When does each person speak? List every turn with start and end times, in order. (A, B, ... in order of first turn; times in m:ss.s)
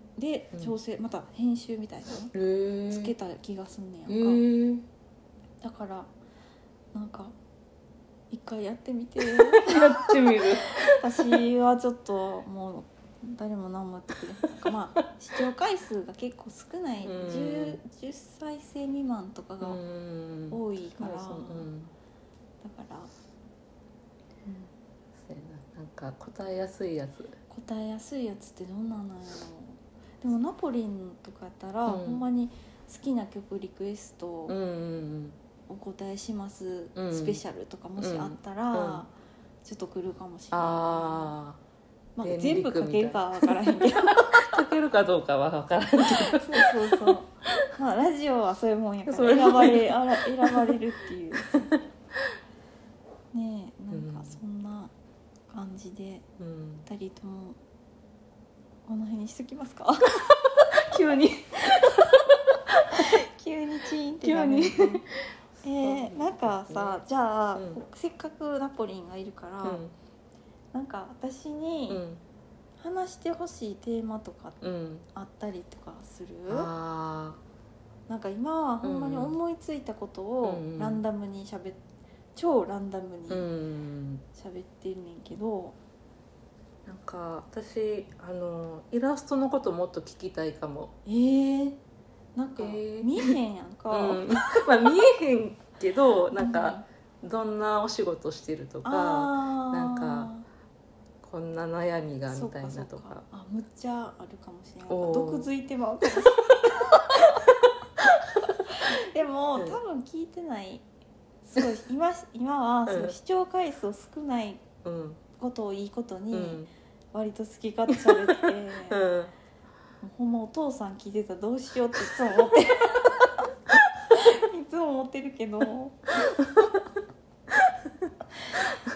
0:00.2-0:02.3 A
0:02.3-0:03.1 B
0:02.9-0:04.4 A
0:04.1-0:04.8 B
0:05.6-0:06.1 A
0:06.9-0:07.3 A
0:08.3-0:19.8 A
0:09.2-0:11.4 B
0:17.0-0:17.8 B
0:19.6-0:21.9 B
0:20.5-0:21.7 A
0:22.6-0:23.1 A
0:24.4-0:24.7 A
0:25.2-0:27.4 B
0:27.5-0:34.6 A
0:31.8-0:32.2 B
0:34.5-0:35.4 B
0:35.7-0:39.1 A
0:37.0-0:37.4 B
0:38.0-0:39.0 B
0:39.6-0:41.3 A
0:40.5-0:41.6 B
0:42.2-0:44.6 A
0:42.2-0:47.0 B
0:46.2-0:51.7 A
0:49.0-0:50.8 B
0:51.5-0:51.7 B
0:53.3-0:54.9 A
0:53.9-0:54.4 B
0:55.5-0:56.2 A
0:56.4-0:56.8 B
0:56.8-0:57.6 A
0:58.9-1:00.4 A
1:00.5-1:03.1 B
1:01.7-1:02.0 A
1:02.9-1:05.0 A
1:04.2-1:07.0 B
1:05.6-1:09.8 A
1:09.6-1:09.9 B
1:10.7-1:12.0 A
1:11.9-1:12.2 B
1:12.8-1:14.6 A
1:14.6-1:15.0 B
1:15.1-1:16.7 A
1:16.5-1:17.4 B
1:18.1-1:21.8 A
1:18.8-1:19.4 B
1:20.4-1:21.0 B
1:22.3-1:23.5 A
1:23.3-1:24.2 B
1:24.3-1:25.8 A
1:26.8-1:30.9 B
1:31.0-1:31.8 A
1:32.3-1:34.7 A
1:32.6-1:33.4 B
1:33.9-1:40.3 B
1:36.4-1:36.8 A
1:38.8-1:40.4 A
1:41.2-1:43.2 B
1:42.3-1:47.6 A
1:44.9-1:45.5 B
1:46.9-1:47.3 B
1:48.4-1:50.8 A
1:51.4-1:54.6 A
1:52.9-1:53.1 B
1:54.8-1:55.2 B
1:55.3-1:56.6 A
1:56.3-1:56.7 B
1:57.1-1:59.1 A
1:58.0-1:59.3 B
2:00.0-2:03.5 A
2:04.1-2:06.0 A